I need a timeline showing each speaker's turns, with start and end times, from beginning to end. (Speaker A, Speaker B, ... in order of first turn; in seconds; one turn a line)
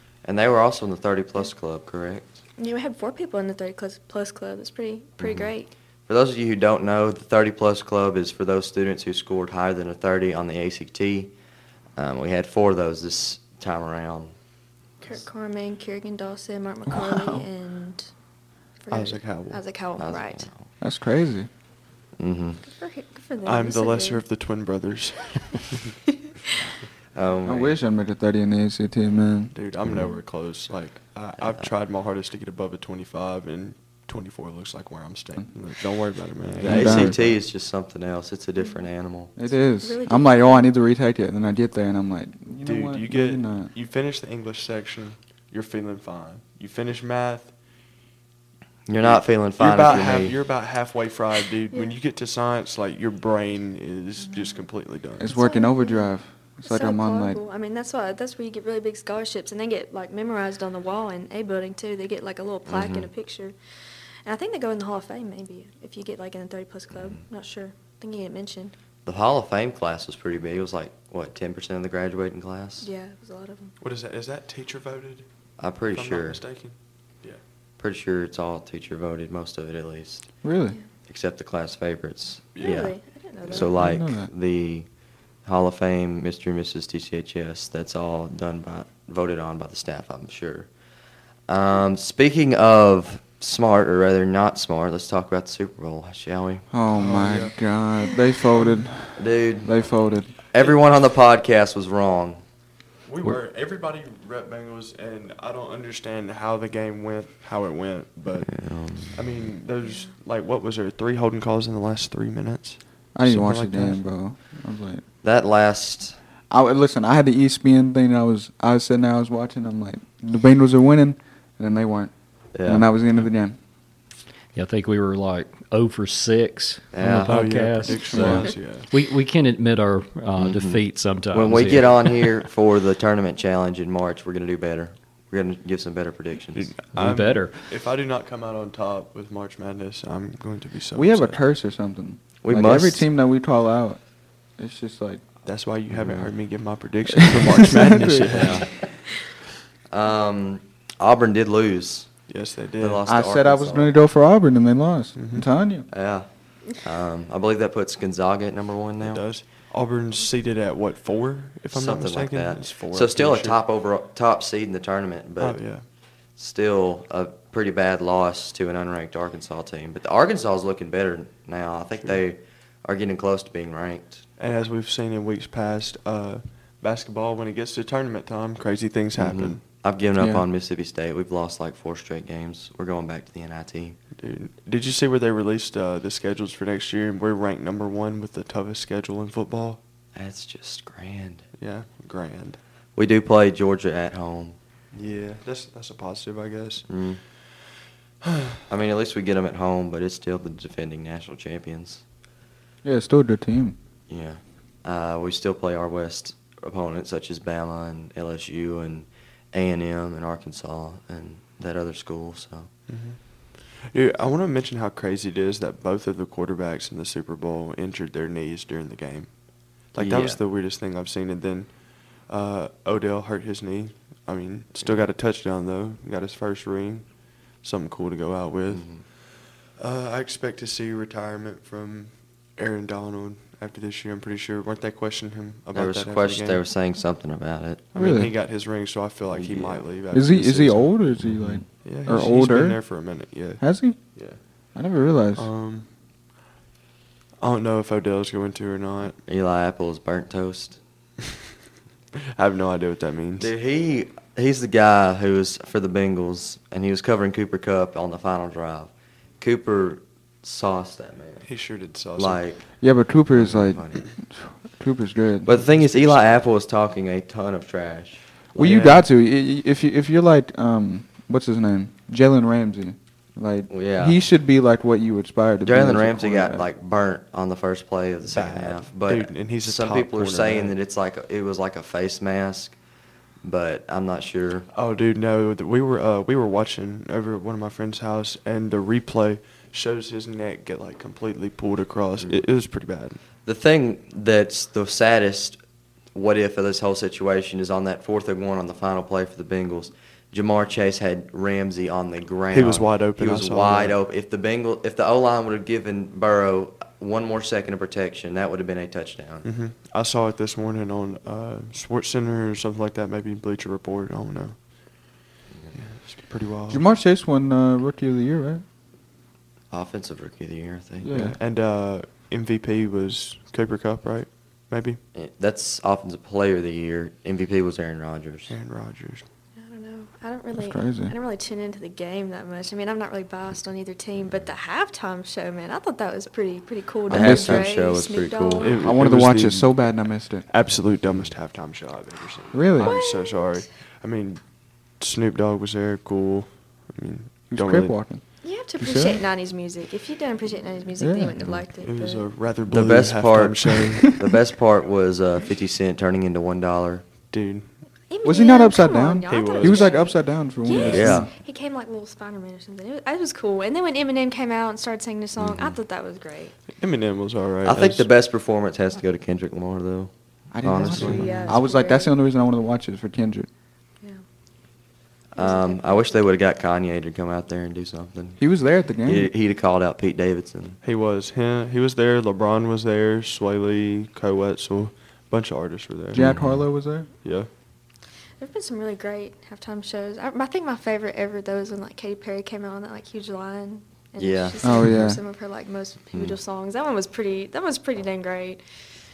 Speaker A: 0.2-2.3
Speaker B: 2.6-5.7
Speaker A: 5.2-5.5
Speaker A: 6.1-11.3
Speaker A: 12.0-14.3
Speaker B: 15.0-18.1
Speaker C: 16.9-17.4
Speaker B: 18.8-20.5
Speaker D: 18.9-19.6
Speaker A: 20.0-20.7
Speaker C: 20.8-21.5
Speaker A: 22.2-22.6
Speaker B: 22.6-24.2
Speaker D: 23.4-25.8
Speaker B: 26.2-26.5
Speaker A: 27.1-27.8
Speaker C: 27.4-29.5
Speaker D: 29.5-37.3
Speaker A: 31.4-31.7
Speaker C: 36.6-37.3
Speaker A: 36.6-39.3
Speaker C: 39.4-43.7
Speaker B: 39.5-40.7
Speaker D: 42.6-47.5
Speaker A: 48.9-50.3
Speaker D: 49.0-55.3
Speaker C: 55.2-57.4
Speaker B: 55.2-56.1
Speaker B: 56.6-63.5
Speaker A: 62.7-63.1
Speaker B: 64.2-68.7
Speaker A: 69.0-72.9
Speaker B: 72.8-73.7
Speaker D: 73.8-75.2
Speaker A: 75.6-76.4
Speaker D: 75.9-77.4
Speaker A: 77.8-80.2
Speaker C: 80.4-80.8
Speaker A: 81.1-82.9
Speaker D: 82.5-82.8
Speaker B: 82.6-83.8
Speaker A: 83.5-84.8
Speaker C: 83.5-84.3
Speaker A: 85.4-90.7
Speaker A: 91.5-96.7
Speaker C: 96.7-100.3
Speaker D: 96.9-97.6
Speaker A: 99.2-99.7
Speaker A: 100.5-102.4
Speaker D: 100.5-100.8
Speaker D: 103.0-114.0
Speaker A: 108.5-109.2
Speaker C: 113.2-115.0
Speaker A: 115.2-116.2
Speaker C: 116.5-123.6
Speaker A: 122.5-122.9
Speaker E: 124.5-132.3
Speaker A: 126.9-127.4
Speaker D: 127.2-128.9
Speaker C: 128.1-128.5
Speaker A: 130.4-136.7
Speaker D: 136.5-141.4
Speaker E: 136.9-137.6
Speaker C: 140.9-144.0
Speaker A: 142.4-143.0
Speaker C: 144.6-145.2
Speaker D: 145.4-148.9
Speaker C: 145.9-146.3
Speaker C: 147.2-148.6
Speaker A: 148.3-148.9
Speaker A: 149.9-152.2
Speaker D: 152.3-153.0
Speaker A: 152.8-153.9
Speaker C: 153.1-155.9
Speaker D: 155.2-155.5
Speaker A: 155.9-159.2
Speaker D: 159.0-163.6
Speaker A: 161.7-165.6
Speaker D: 165.4-165.8
Speaker A: 166.3-174.2
Speaker D: 174.4-179.6
Speaker A: 179.2-184.0
Speaker C: 180.2-180.4
Speaker D: 184.2-189.8
Speaker A: 190.2-191.4
Speaker D: 191.6-192.6
Speaker A: 193.0-194.6
Speaker D: 194.9-196.8
Speaker A: 196.9-197.2
Speaker D: 198.2-198.6
Speaker A: 198.7-202.0
Speaker C: 202.8-203.8
Speaker A: 204.1-212.7
Speaker D: 212.9-236.6
Speaker A: 220.0-220.4
Speaker A: 228.7-229.0
Speaker A: 235.7-237.9
Speaker D: 237.9-241.0
Speaker C: 237.9-238.3
Speaker A: 239.3-239.8
Speaker C: 240.1-242.8
Speaker A: 241.2-241.6
Speaker D: 241.8-243.6
Speaker C: 243.6-244.0
Speaker C: 244.7-245.5
Speaker D: 245.3-245.9
Speaker D: 247.4-249.2
Speaker A: 249.2-250.8
Speaker D: 252.3-253.5
Speaker A: 253.4-261.5
Speaker D: 261.4-262.4
Speaker A: 262.1-262.7
Speaker C: 262.8-265.6
Speaker A: 263.3-264.0
Speaker A: 265.4-268.2
Speaker D: 265.6-266.3
Speaker C: 268.5-276.7
Speaker D: 268.6-269.0
Speaker A: 273.7-274.2
Speaker A: 275.6-282.8
Speaker D: 278.3-280.8
Speaker A: 283.4-284.7
Speaker D: 284.7-293.2
Speaker A: 293.4-295.6
Speaker A: 296.1-309.4
Speaker D: 302.5-304.0
Speaker D: 309.4-315.1
Speaker D: 315.7-316.8
Speaker C: 316.7-318.6
Speaker A: 319.7-321.1
Speaker C: 321.0-321.4
Speaker D: 321.1-325.0
Speaker A: 325.1-328.5
Speaker D: 328.5-329.2
Speaker B: 329.6-338.8
Speaker C: 330.6-331.1
Speaker A: 337.1-338.8
Speaker C: 337.1-337.7
Speaker D: 338.6-339.8
Speaker C: 338.8-340.5
Speaker D: 340.5-347.9
Speaker C: 342.5-342.9
Speaker B: 342.8-343.6
Speaker C: 347.5-349.2
Speaker B: 348.4-352.2
Speaker C: 351.0-351.3
Speaker D: 351.8-354.1
Speaker A: 352.7-357.0
Speaker D: 357.3-357.6
Speaker B: 358.1-366.5
Speaker C: 358.2-361.3
Speaker D: 359.3-360.0
Speaker D: 360.7-361.2
Speaker A: 360.8-361.3
Speaker A: 365.4-365.8
Speaker D: 366.8-368.1
Speaker A: 367.6-371.5
Speaker C: 370.5-373.5
Speaker D: 370.9-371.5
Speaker B: 371.0-372.1
Speaker A: 375.3-378.4
Speaker B: 375.4-376.2
Speaker C: 378.4-379.3
Speaker A: 379.0-380.8
Speaker D: 380.8-386.2
Speaker A: 386.1-386.6
Speaker C: 386.1-387.1
Speaker D: 387.2-387.5
Speaker B: 388.4-398.6
Speaker A: 394.2-394.8
Speaker C: 394.6-395.2